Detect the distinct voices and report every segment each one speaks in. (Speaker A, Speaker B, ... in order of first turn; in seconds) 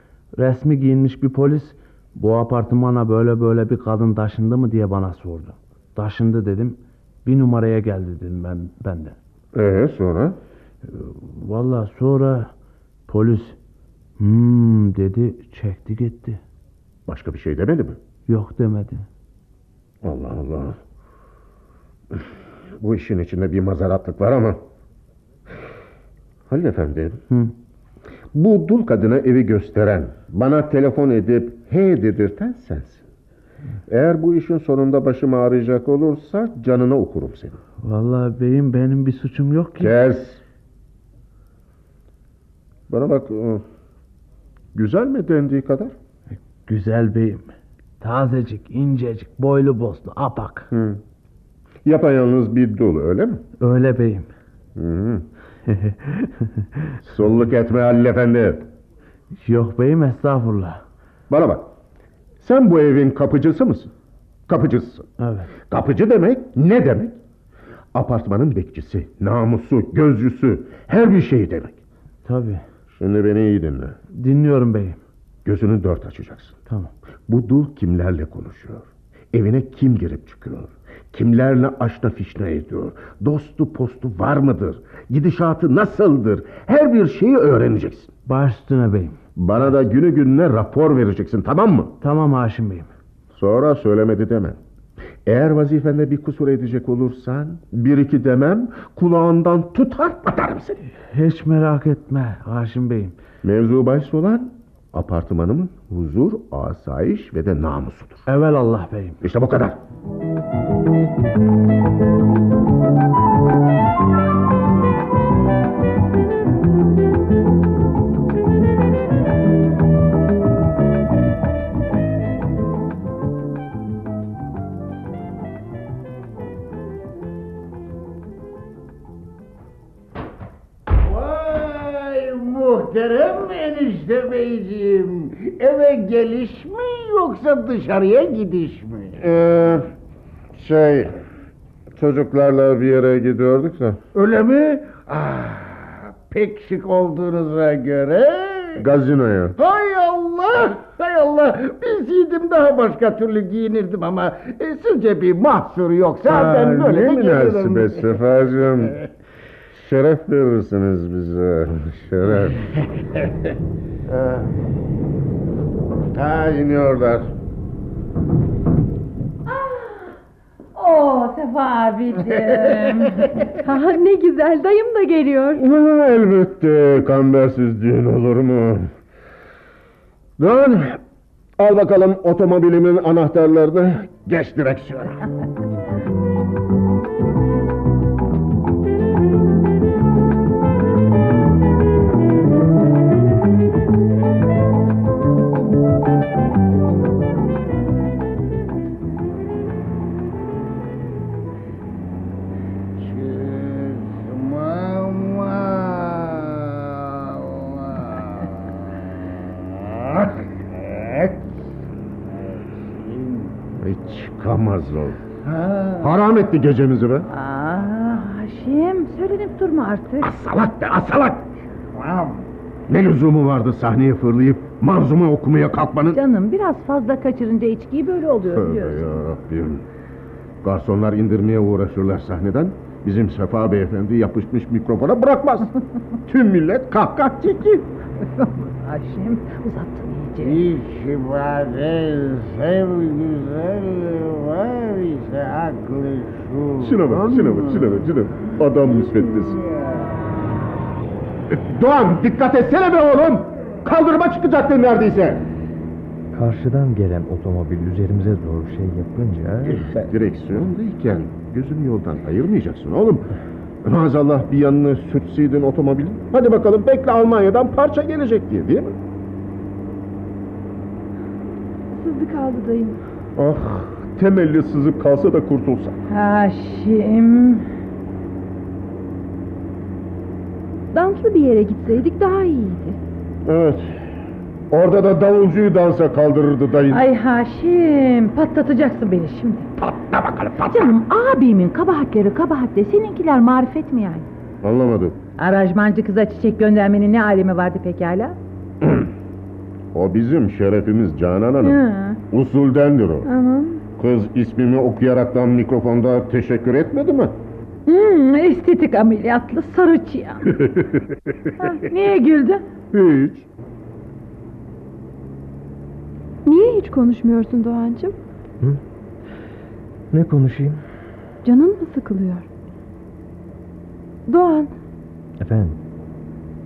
Speaker A: 0.3-9.2, 10.8-12.5, 13.1-13.6, 14.2-16.4, 18.3-19.1, 37.8-39.9, 46.3-47.5, 48.0-50.7, 53.6-54.3, 55.7-56.6, 59.4-60.8, 65.2-65.5, 72.2-72.6, 74.1-75.0, 88.3-89.2, 92.0-92.9, 101.1-103.2, 108.2-109.2
Speaker B: 9.5-10.4, 17.1-18.0, 20.0-20.8, 22.8-24.6, 26.5-27.2, 28.3-33.0, 33.9-37.6, 39.8-40.4, 42.9-43.6, 44.7-45.9, 50.7-51.0, 51.8-53.4, 54.8-55.2, 57.0-58.6, 61.3-61.7, 62.4-63.9, 64.5-65.0, 65.7-67.2, 67.9-71.8, 73.0-74.0, 75.4-76.6, 77.3-88.1, 89.3-91.9, 93.3-94.6, 95.2-100.8, 103.4-108.2, 109.2-109.8, 139.2-139.9, 140.5-141.2, 141.9-144.0, 148.8-149.5, 156.3-158.9, 159.7-162.7, 164.1-164.5, 166.1-167.3, 175.6-178.9, 180.4-181.0, 181.6-185.2, 213.8-215.2, 216.0-217.3, 220.2-221.4, 222.9-226.2, 228.5-229.8, 230.6-235.7, 236.2-237.8, 246.8-249.6, 251.5-255.4, 259.6-268.9, 273.4-275.9, 283.4-284.0, 284.7-287.0, 289.8-290.9, 294.6-295.1, 298.8-299.1, 299.9-303.3, 304.0-307.4, 312.9-313.4
Speaker C: 131.0-139.2, 144.1-148.8, 149.6-158.1, 203.0-208.5, 210.0-210.3, 210.8-211.3, 213.0-213.5, 215.4-216.1, 221.9-222.4, 240.4-248.0, 249.5-249.9
Speaker D: 169.5-170.2, 170.7-173.5, 217.3-220.3, 226.1-229.2, 238.4-240.6, 276.1-277.7, 286.9-289.7, 290.7-294.3, 295.4-298.4, 301.6-302.2, 303.2-303.8, 307.9-310.5, 311.6-312.6
Speaker E: 173.6-175.6, 271.9-273.0, 280.9-283.0, 316.4-318.1, 321.4-322.5, 324.2-324.7
Speaker F: 256.3-260.1, 320.1-320.8, 325.4-325.8